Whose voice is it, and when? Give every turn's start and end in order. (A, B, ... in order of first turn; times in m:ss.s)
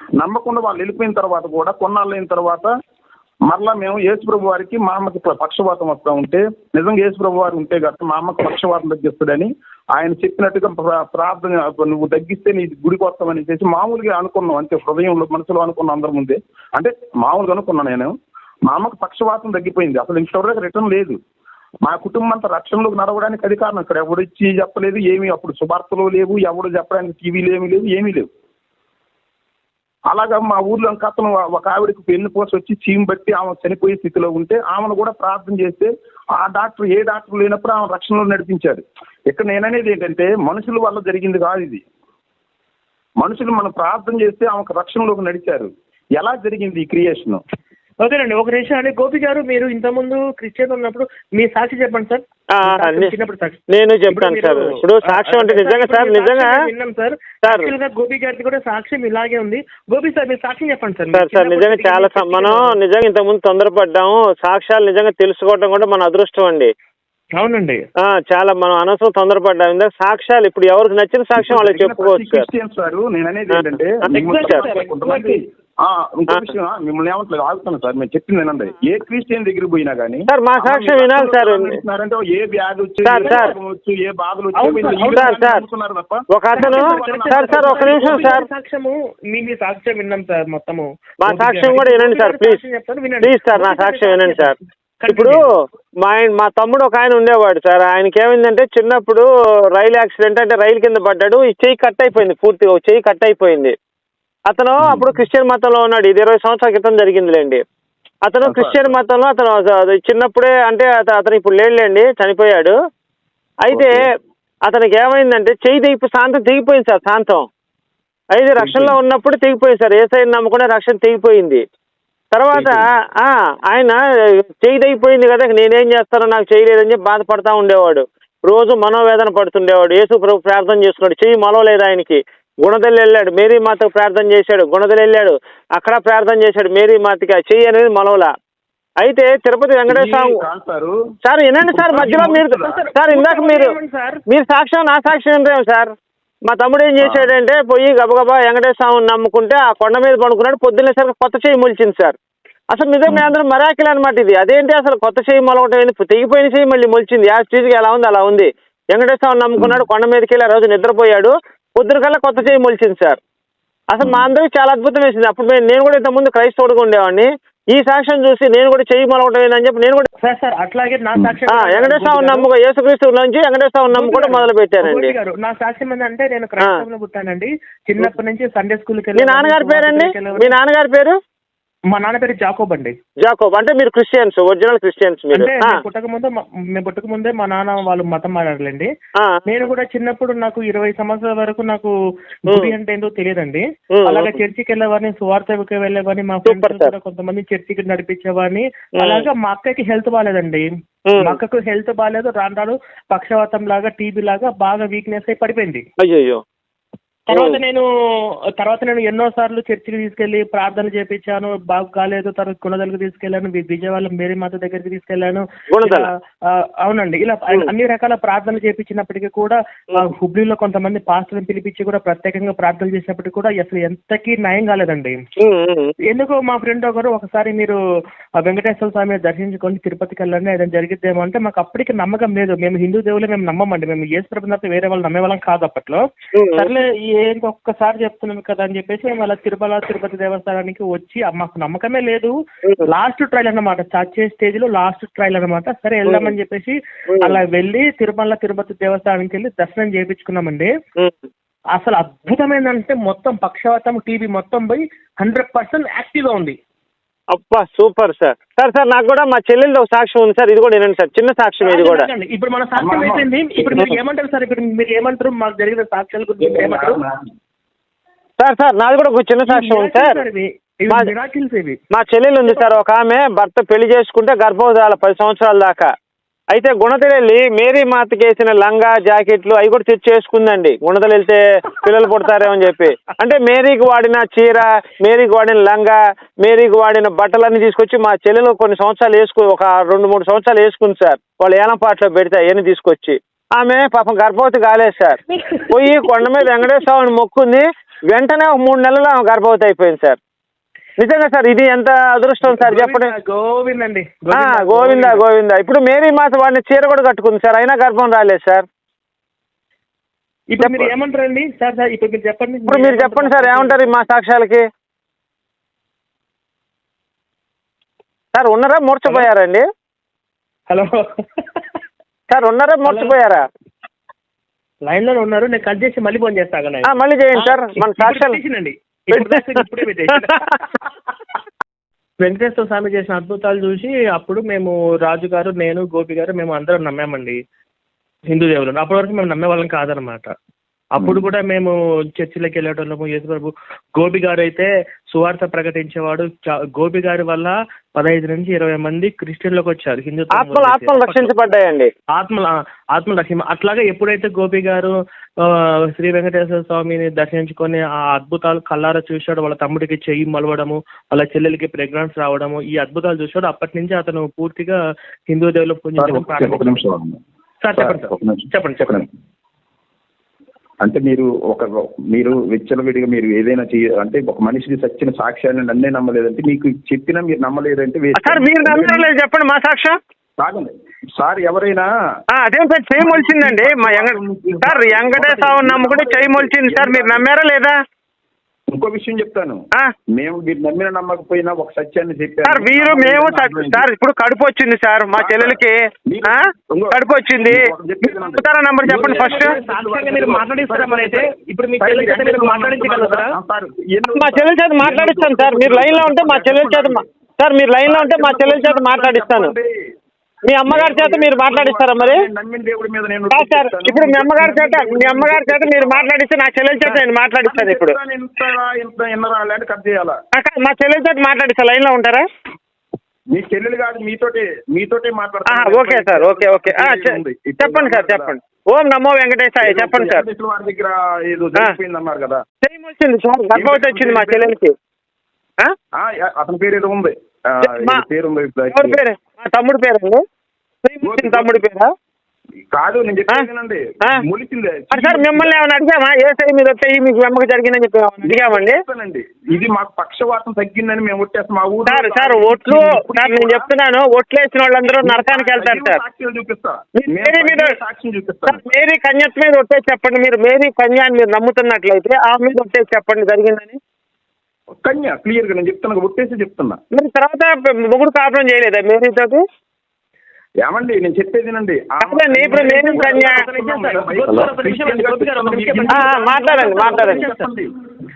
0:00.2-0:02.7 A
0:03.5-0:18.1 A
0:18.7-0:21.2 A
0:21.8-0:28.3 A
0:30.1-0:41.8 A
0:43.2-0:47.4 A
0:48.0-0:53.6 B
0:52.5-0:53.1 C
0:53.7-0:56.5 C
0:54.1-1:02.8 B
0:57.4-0:57.7 C
1:01.1-1:06.7 C
1:07.4-1:07.8 B
1:08.0-1:12.5 C
1:11.4-1:28.4 A
1:13.5-1:14.6 C
1:14.1-1:15.4 B
1:20.3-1:21.8 C
1:23.0-1:23.5 C
1:23.2-1:23.5 B
1:24.6-1:25.3 B
1:25.1-1:25.6 C
1:26.3-1:28.4 C
1:26.5-1:35.4 B
1:31.2-1:32.6 C
1:33.2-1:34.6 C
1:35.1-1:35.4 C
1:36.0-1:43.8 C
1:44.5-1:47.6 C
1:44.8-1:45.2 A
1:48.2-1:52.7 C
1:48.4-1:48.9 A
1:53.6-1:54.0 C
1:53.7-1:54.0 A
1:54.6-1:57.5 C
1:58.4-2:01.6 C
1:58.6-1:59.0 A
2:02.3-2:18.3 C
2:02.5-2:02.8 A
2:19.0-2:20.4 C
2:19.9-2:21.0 A
2:21.2-2:23.7 C
2:21.6-2:22.8 A
2:21.9-2:24.2 B
2:24.3-2:25.9 C
2:26.5-2:32.2 C
2:27.0-2:27.4 A
2:32.7-2:43.2 C
2:33.1-2:33.3 A
2:39.6-2:39.8 A
2:43.9-2:50.1 C
2:44.0-2:44.3 A
2:50.2-2:52.5 B
2:51.5-2:55.1 C
2:53.9-3:00.6 B
2:59.2-3:01.2 C
3:01.9-3:03.0 B
3:03.2-3:05.8 C
3:05.3-3:08.9 B
3:09.5-3:11.9 B
3:12.5-3:20.7 B
3:13.9-3:14.4 C
3:16.5-3:16.9 C
3:19.0-3:19.2 C
3:21.1-3:21.4 C
3:21.2-3:25.8 B
3:26.0-3:26.4 C
3:27.3-3:45.2 B
3:27.3-3:27.6 C
3:35.7-3:36.1 C
3:45.4-3:45.9 C
3:46.1-3:47.8 B
3:48.4-3:56.0 B
3:56.3-3:56.7 C
3:56.6-4:02.3 B
4:02.8-4:10.7 B
4:06.1-4:06.3 C
4:07.1-4:07.4 C
4:11.8-4:16.6 B
4:17.3-4:22.1 C
4:21.6-4:27.0 B
4:22.8-4:23.8 A
4:26.4-4:27.2 A
4:28.4-4:30.2 C
4:29.5-4:31.8 B
4:31.9-4:35.9 C
4:36.5-5:00.2 C
5:01.0-5:03.1 C
5:02.4-5:05.2 B
5:04.3-5:08.6 C
5:10.5-5:13.9 B
5:10.6-5:10.9 C
5:12.7-5:14.6 C
5:18.3-5:19.6 C
5:20.7-5:21.0 B
5:22.3-5:23.4 C
5:22.8-5:23.2 B
5:24.9-5:30.5 B
5:26.9-5:28.4 C
5:29.1-5:29.6 C
5:32.2-5:37.4 B
5:38.3-5:40.3 B
5:41.0-5:51.3 B
5:50.4-5:51.9 C
5:52.1-6:06.8 B
6:06.0-6:07.2 A
6:07.6-6:09.0 B
6:07.8-6:09.1 A
6:10.8-6:19.1 A
6:18.2-6:20.0 C
6:20.4-6:21.9 A
6:22.3-6:27.8 C
6:23.0-6:27.2 A
6:28.7-6:33.9 A
6:32.5-6:35.8 C
6:35.2-6:41.3 A
6:36.3-6:39.5 C
6:38.9-6:43.4 B
6:41.8-6:47.0 A
6:44.2-6:49.5 C
6:47.9-6:49.7 A
6:50.5-6:52.2 C
6:50.7-6:56.1 A
6:53.3-6:58.0 C
6:56.8-7:00.2 A
7:00.3-7:02.2 C
7:03.3-7:08.3 A
7:05.5-7:10.2 C
7:09.6-7:12.4 A
7:12.6-7:14.7 C
7:13.5-7:14.5 A
7:16.0-7:19.0 A
7:17.6-7:18.0 C
7:18.7-7:20.2 C
7:20.8-7:21.9 C
7:21.0-7:21.6 A
7:22.7-7:25.6 A
7:24.9-7:28.8 C
7:28.2-7:33.7 A
7:31.9-7:36.0 C
7:34.8-7:38.6 A
7:37.0-7:37.8 C
7:38.5-7:43.8 C
7:44.8-7:46.8 A
7:46.9-7:49.4 C
7:50.6-7:57.7 A
7:52.0-7:53.4 C
7:52.5-7:57.5 B
7:55.9-7:57.2 C